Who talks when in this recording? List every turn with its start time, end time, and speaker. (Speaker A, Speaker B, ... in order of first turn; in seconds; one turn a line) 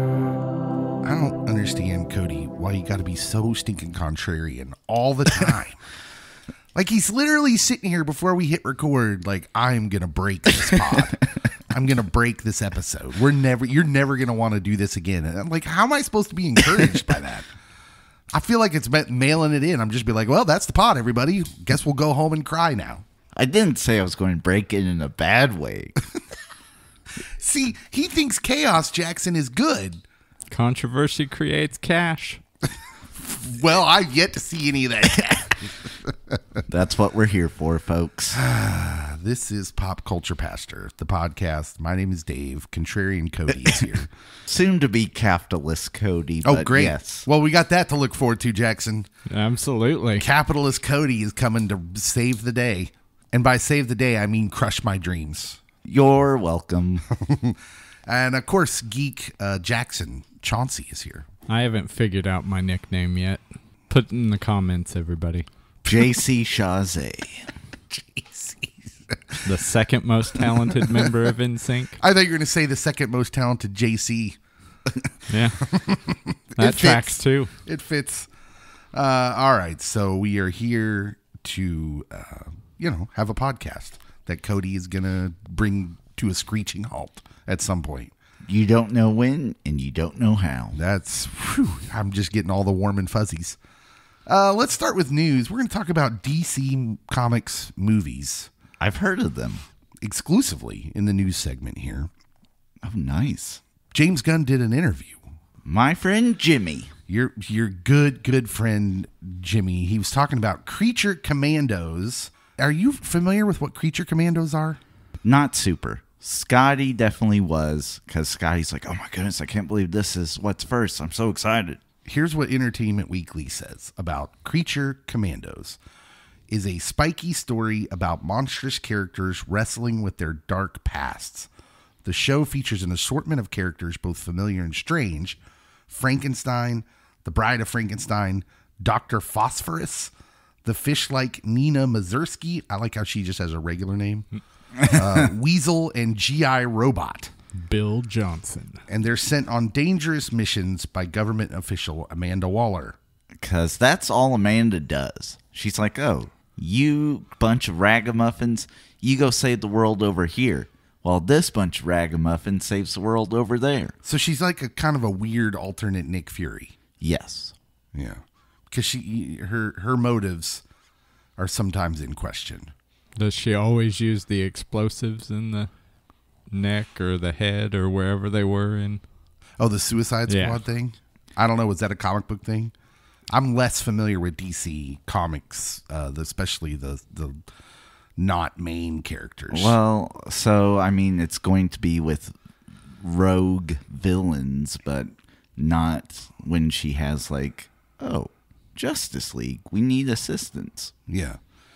Speaker A: 1.0-5.8
Speaker A: 6.7-17.5
Speaker A: 18.3-23.0
Speaker B: 23.4-26.0
Speaker A: 27.4-30.0
Speaker C: 30.5-32.4
Speaker A: 33.2-36.6
Speaker B: 36.7-38.4
Speaker A: 38.3-44.1
Speaker B: 44.5-47.2
Speaker A: 46.4-49.1
Speaker C: 49.3-50.2
Speaker A: 50.2-55.6
Speaker B: 55.8-57.0
Speaker A: 57.1-61.3
Speaker C: 61.5-65.5
Speaker A: 65.8-66.1
Speaker B: 65.8-67.5
Speaker A: 67.9-69.5
Speaker C: 69.4-72.0
Speaker A: 70.4-71.1
Speaker A: 72.0-74.4
Speaker C: 75.3-75.7
Speaker A: 75.6-78.3
Speaker C: 76.6-77.5
Speaker A: 78.9-88.1
Speaker B: 88.5-90.8
Speaker A: 90.7-93.6
Speaker A: 94.3-98.5
Speaker B: 98.8-99.6
Speaker A: 100.0-102.1
Speaker B: 102.8-103.6
Speaker A: 103.9-105.2
Speaker B: 105.6-106.9
Speaker A: 107.1-114.8
Speaker B: 115.2-121.8
Speaker A: 122.0-125.8
Speaker A: 126.5-131.5
Speaker A: 132.0-135.4
Speaker A: 135.9-140.1
Speaker A: 140.7-144.3
Speaker B: 144.8-145.3
Speaker A: 144.9-147.3
Speaker C: 147.6-148.8
Speaker A: 148.9-153.0
Speaker B: 153.4-164.0
Speaker A: 164.0-166.8
Speaker B: 167.0-167.6
Speaker A: 167.9-170.6
Speaker A: 171.4-172.7
Speaker C: 173.2-175.7
Speaker C: 176.5-179.0
Speaker A: 179.6-182.7
Speaker C: 180.3-180.6
Speaker A: 183.3-187.4
Speaker A: 188.2-189.8
Speaker B: 189.5-192.3
Speaker B: 193.0-200.9
Speaker A: 201.1-201.4